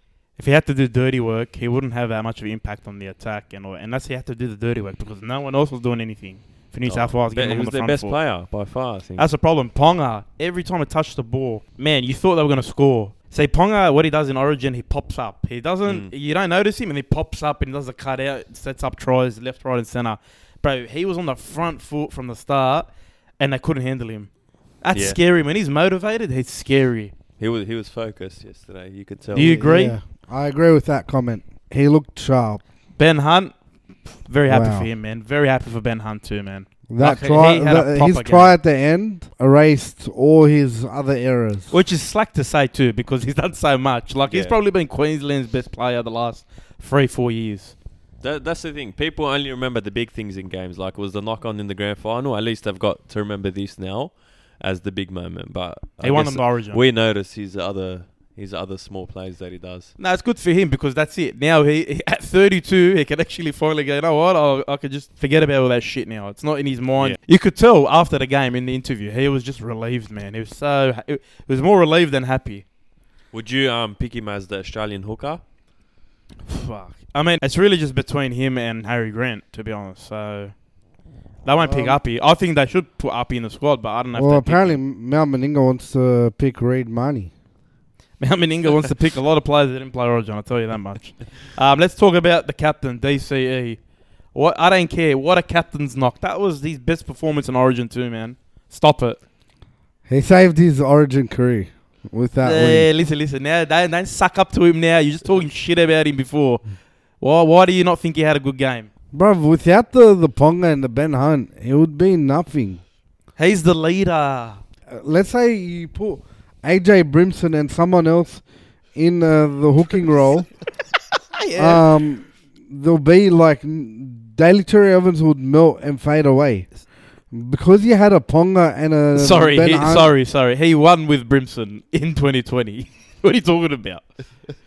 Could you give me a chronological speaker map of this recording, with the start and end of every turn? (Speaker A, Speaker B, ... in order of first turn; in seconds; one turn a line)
Speaker A: 0.3-8.2
Speaker B: 6.8-9.3
Speaker A: 9.2-24.3
Speaker B: 15.8-16.1
Speaker A: 24.8-27.1
Speaker B: 24.9-25.2
Speaker B: 27.4-29.6
Speaker A: 29.3-30.0
Speaker C: 29.3-32.6
Speaker A: 33.0-33.5
Speaker A: 34.1-38.5
Speaker C: 34.5-34.9
Speaker C: 36.9-41.7
Speaker A: 41.7-47.7
Speaker B: 44.3-44.5
Speaker B: 48.2-59.9
Speaker A: 56.0-56.8
Speaker A: 60.0-72.6
Speaker B: 73.3-75.4
Speaker A: 76.5-80.5
Speaker A: 81.4-84.8
Speaker C: 81.6-82.0
Speaker C: 84.1-87.3
Speaker A: 88.2-93.8
Speaker A: 94.3-99.2
Speaker C: 100.1-102.9
Speaker A: 102.4-106.7
Speaker A: 107.2-108.9
Speaker C: 109.1-112.8
Speaker A: 113.3-114.6
Speaker C: 114.9-118.4
Speaker C: 118.9-120.5
Speaker A: 121.3-121.8
Speaker C: 121.5-126.7
Speaker C: 127.3-130.1
Speaker A: 129.1-134.0